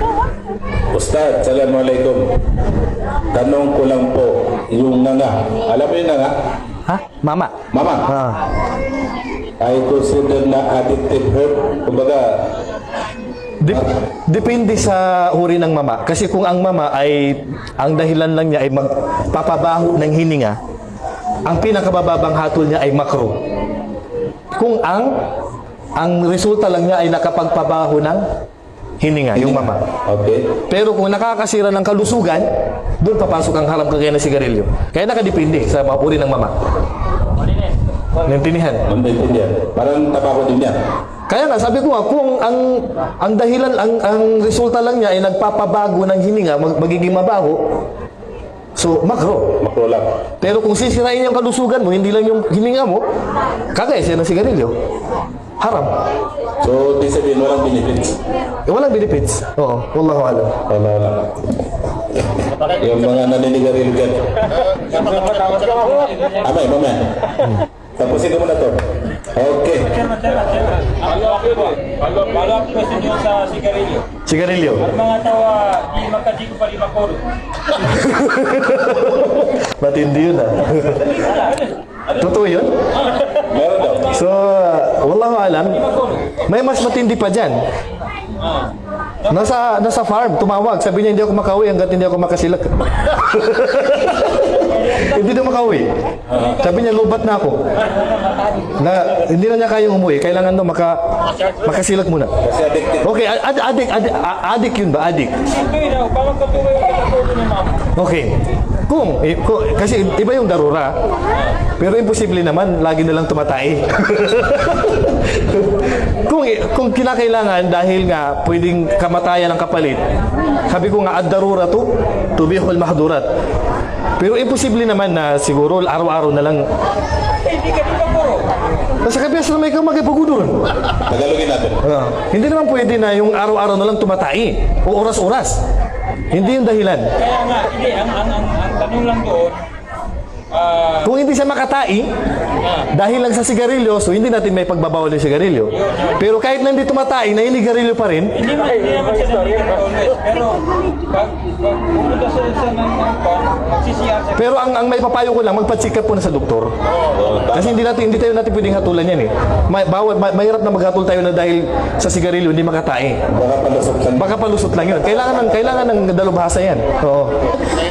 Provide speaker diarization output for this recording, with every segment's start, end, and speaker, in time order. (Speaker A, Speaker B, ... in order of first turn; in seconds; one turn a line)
Speaker A: 0.9-2.2
Speaker A: 3.3-6.3
Speaker B: 6.8-7.5
Speaker A: 7.7-8.1
Speaker B: 8.1-8.4
Speaker A: 9.6-12.4
Speaker B: 13.6-20.6
Speaker B: 21.4-23.4
Speaker B: 24.6-25.2
Speaker B: 25.9-28.2
Speaker B: 29.0-29.8
Speaker A: 29.4-30.5
Speaker B: 30.7-36.5
Speaker B: 38.2-38.8
Speaker A: 38.9-40.8
Speaker B: 41.3-47.6
Speaker B: 48.8-49.5
Speaker A: 49.6-50.1
Speaker B: 50.4-53.0
Speaker B: 53.7-54.7
Speaker B: 55.6-55.9
Speaker A: 56.6-58.2
Speaker B: 58.6-60.6
Speaker A: 60.7-61.4
Speaker A: 62.5-64.3
Speaker C: 64.9-66.3
Speaker A: 66.3-67.3
Speaker A: 68.0-70.0
Speaker C: 69.9-74.1
Speaker B: 74.2-74.9
Speaker C: 74.8-77.2
Speaker B: 77.7-81.3
Speaker C: 81.3-81.7
Speaker B: 82.1-82.7
Speaker C: 83.0-83.3
Speaker A: 83.3-84.1
Speaker B: 84.0-87.6
Speaker C: 85.8-86.3
Speaker C: 88.4-88.7
Speaker B: 89.3-97.7
Speaker A: 96.3-96.6
Speaker C: 97.9-98.6
Speaker B: 98.8-102.3
Speaker A: 102.4-103.1
Speaker B: 103.0-105.4
Speaker C: 105.5-107.9
Speaker B: 107.9-108.3
Speaker B: 108.8-110.9
Speaker B: 111.8-120.1
Speaker B: 120.7-123.3
Speaker B: 124.2-126.7
Speaker C: 127.4-128.5
Speaker B: 129.0-130.6
Speaker A: 131.0-131.8
Speaker B: 131.8-135.6
Speaker B: 136.3-137.1
Speaker C: 137.2-139.6
Speaker C: 140.5-141.0
Speaker B: 141.0-142.1
Speaker B: 142.9-148.4
Speaker C: 145.8-146.1
Speaker C: 148.4-154.3
Speaker B: 154.3-156.7
Speaker A: 156.9-157.7
Speaker B: 157.5-163.2
Speaker A: 163.3-164.3
Speaker B: 164.2-167.4